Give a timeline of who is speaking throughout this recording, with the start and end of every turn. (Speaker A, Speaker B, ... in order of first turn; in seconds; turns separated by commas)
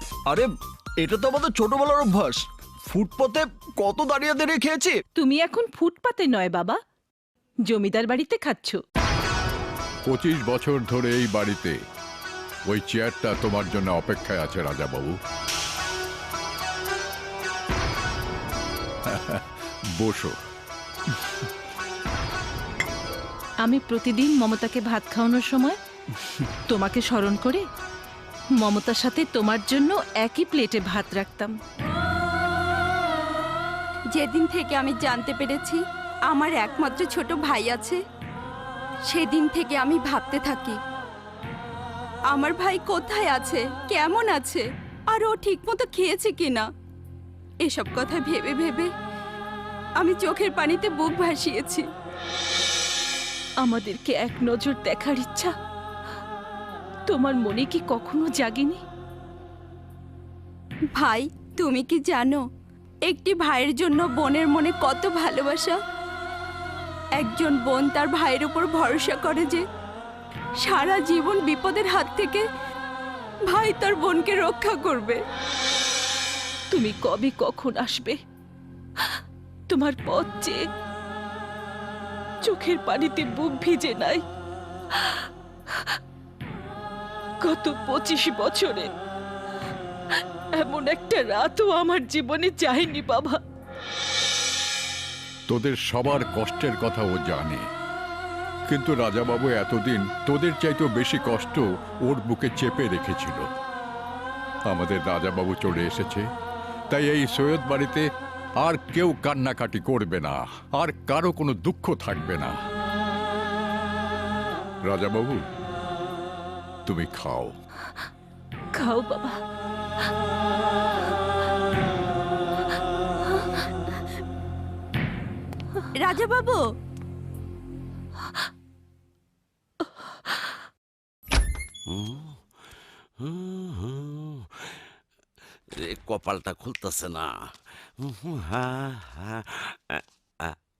Speaker A: 1.0-4.9, Speaker B: 5.2-6.8, Speaker B: 7.7-8.8, Speaker C: 10.1-11.8, Speaker C: 12.7-15.2, Speaker C: 19.1-19.4, Speaker C: 20.0-20.3, Speaker B: 23.6-25.8, Speaker B: 26.7-27.6, Speaker B: 28.6-31.5, Speaker D: 34.1-38.0, Speaker D: 39.1-40.8, Speaker D: 42.3-46.6, Speaker D: 47.6-48.9, Speaker D: 50.0-51.8, Speaker B: 53.6-55.5, Speaker B: 57.1-58.8, Speaker D: 61.0-62.4, Speaker D: 63.1-65.8, Speaker D: 67.2-69.6, Speaker D: 70.6-72.4, Speaker D: 73.5-75.2, Speaker B: 76.7-78.2, Speaker B: 79.7-80.6, Speaker B: 82.4-84.2, Speaker B: 84.9-85.2, Speaker B: 87.4-88.9, Speaker B: 90.5-93.4, Speaker C: 95.5-97.6, Speaker C: 98.7-103.5, Speaker C: 104.7-106.2, Speaker C: 106.9-108.0, Speaker C: 108.6-112.5, Speaker C: 114.8-115.4, Speaker C: 116.8-117.5, Speaker B: 118.7-119.4, Speaker D: 126.0-126.6, Speaker E: 131.9-132.4, Speaker E: 133.2-134.6, Speaker E: 135.8-137.4, Speaker E: 138.0-140.6